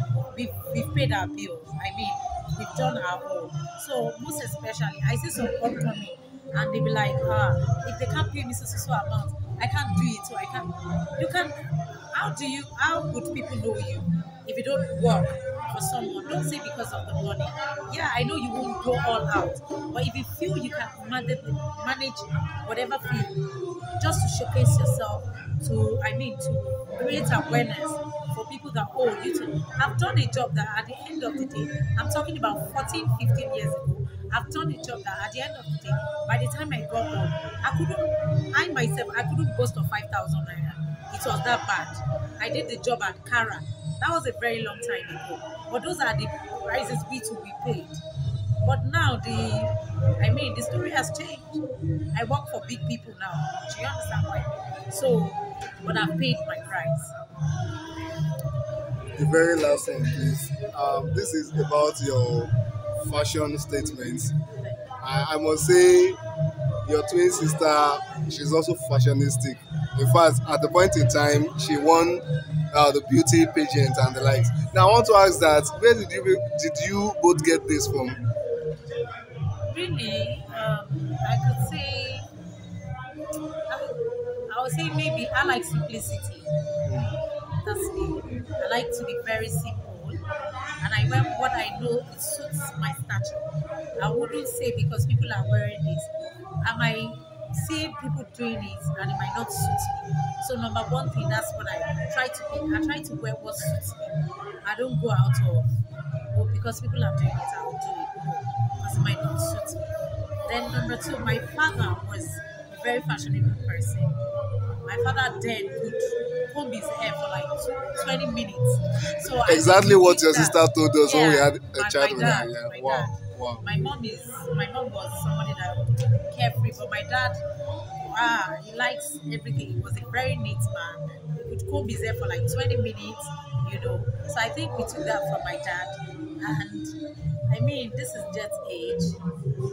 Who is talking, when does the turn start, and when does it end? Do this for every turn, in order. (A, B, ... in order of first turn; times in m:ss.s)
0:00.3-0:23.4 A
0:24.0-0:48.0 A
0:48.6-0:57.1 A
0:59.1-1:04.4 B
1:05.0-1:06.2 B
1:06.8-1:18.2 B
1:19.6-1:22.3 A
1:23.7-1:26.5 A
1:26.8-1:27.2 B
1:27.6-1:30.2 A
1:30.8-1:45.7 A
1:46.3-1:49.9 A
1:50.4-1:54.2 A
1:54.8-2:07.4 A
1:59.3-2:03.6 B
2:08.0-2:17.0 A
2:17.5-2:19.2 A